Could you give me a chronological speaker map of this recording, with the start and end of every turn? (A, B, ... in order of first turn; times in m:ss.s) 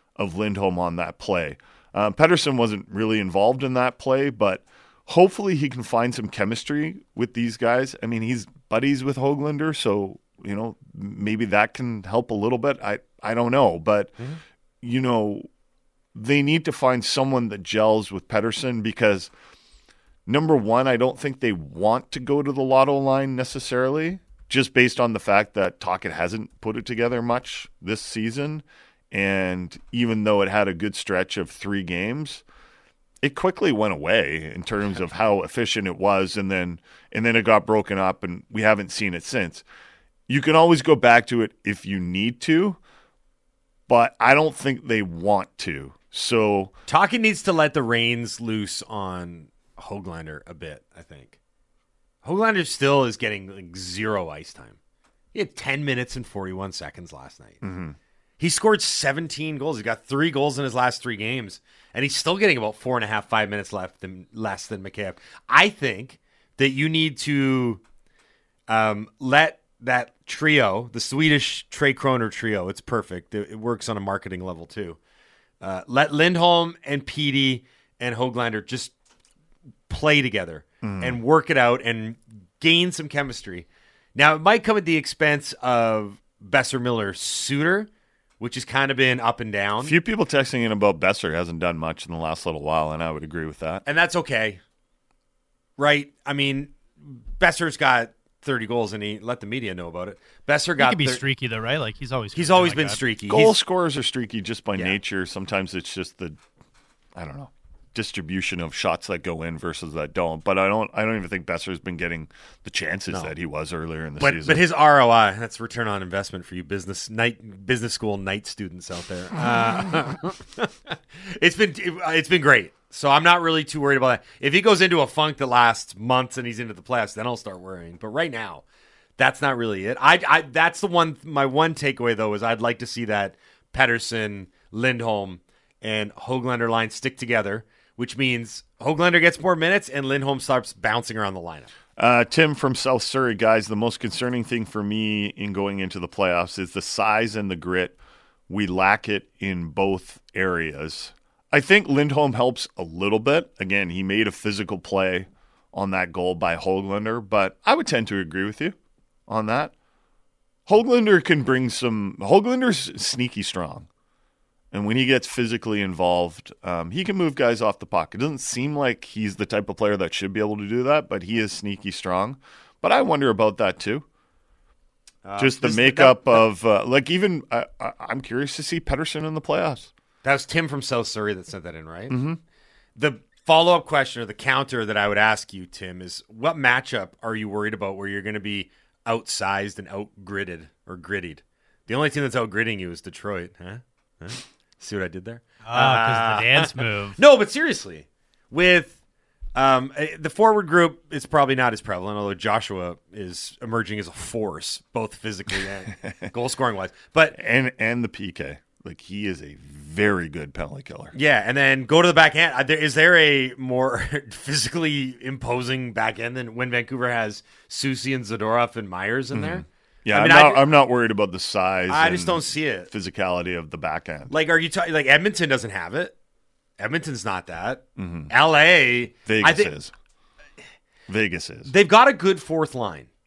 0:00.2-0:14.2 A
0:14.8-0:15.5 A
0:16.1-0:19.3 A
0:20.3-0:32.4 A
0:33.2-0:39.6 A
0:40.3-0:42.8 A
0:43.9-0:46.8 A
0:46.9-0:51.4 B
0:52.2-0:54.8 B
0:55.3-0:57.6 B
0:57.6-0:58.0 A
0:58.4-1:07.8 B
1:08.7-1:15.0 B
1:15.6-1:18.9 B
1:19.9-1:27.9 B
1:20.8-1:21.2 A
1:28.4-1:30.0 B
1:29.8-1:33.8 A
1:33.9-1:34.6 B
1:35.8-1:41.2 B
1:40.8-1:43.0 C
1:42.3-1:43.6 B
1:43.3-1:46.4 A
1:47.2-1:54.7 A
1:54.2-2:08.6 B
2:09.2-2:21.7 B
2:22.0-2:28.0 A
2:28.5-2:39.7 A
2:40.7-2:43.9 A
2:44.7-2:54.0 A
2:55.2-2:56.4 B
2:55.4-2:59.9 A
3:00.2-3:02.2 B
3:02.1-3:02.4 A
3:03.0-3:19.0 B
3:15.7-3:17.2 C
3:19.6-3:27.4 B
3:25.9-3:26.3 A
3:27.3-3:31.1 A
3:31.1-3:40.6 B
3:39.3-3:44.4 A
3:41.9-3:42.9 B
3:44.3-3:46.2 B
3:46.8-3:49.7 B
3:48.0-3:48.3 A
3:49.3-3:49.9 A
3:51.1-3:51.7 A
3:51.7-3:53.1 B